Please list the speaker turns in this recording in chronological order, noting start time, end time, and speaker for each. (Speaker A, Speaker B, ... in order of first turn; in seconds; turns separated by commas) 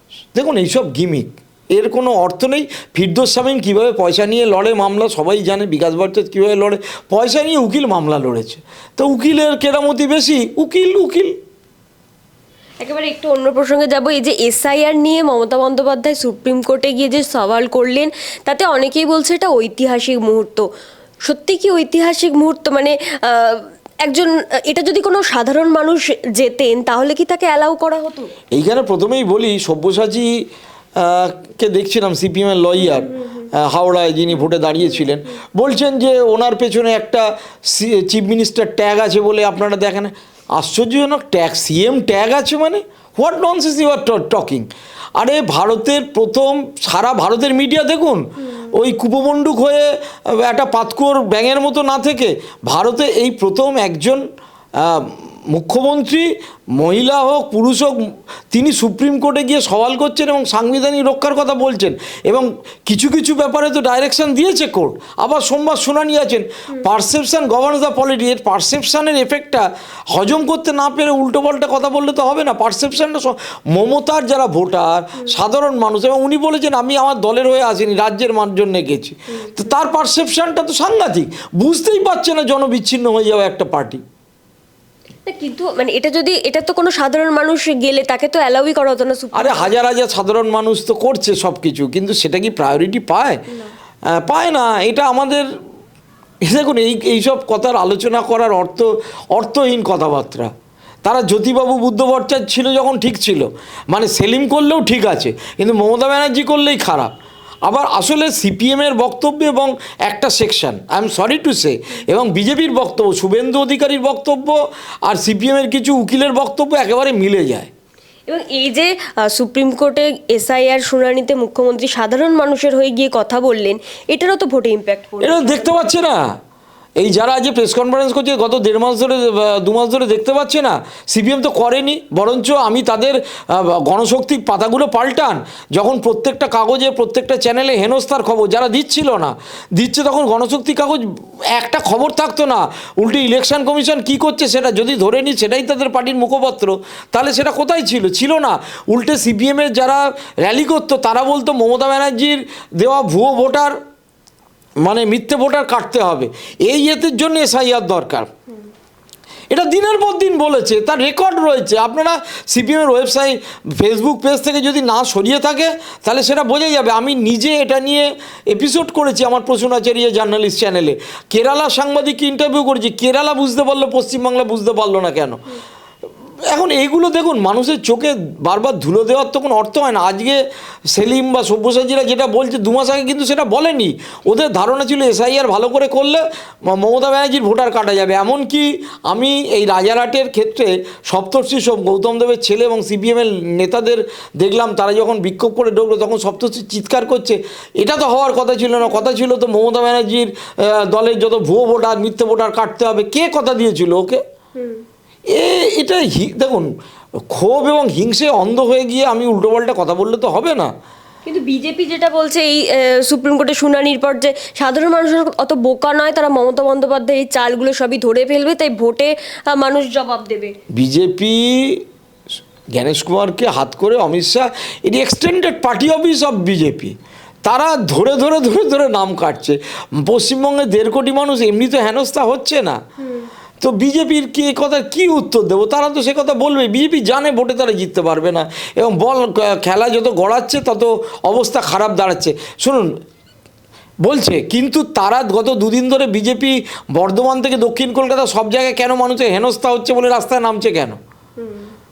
Speaker A: 0.3-11.3, Speaker B: 12.8-20.7, Speaker B: 21.2-28.3, Speaker A: 28.5-30.3, Speaker A: 31.0-54.2, Speaker B: 32.8-33.5, Speaker A: 54.8-84.0, Speaker B: 85.2-89.7, Speaker A: 89.3-93.4, Speaker A: 94.2-95.5, Speaker A: 96.4-100.5, Speaker A: 101.0-107.1, Speaker A: 107.7-117.7, Speaker B: 118.3-125.9, Speaker A: 125.2-126.3, Speaker A: 127.0-153.8, Speaker A: 154.8-158.3, Speaker A: 159.5-175.4, Speaker A: 176.5-180.4, Speaker A: 180.9-204.2, Speaker B: 204.6-204.8, Speaker A: 205.3-206.7, Speaker A: 207.3-210.7, Speaker B: 211.2-220.5, Speaker A: 220.7-221.8, Speaker A: 222.7-226.9, Speaker A: 227.4-232.8, Speaker B: 233.0-233.3, Speaker A: 233.6-242.9, Speaker A: 244.0-251.0, Speaker B: 251.4-251.7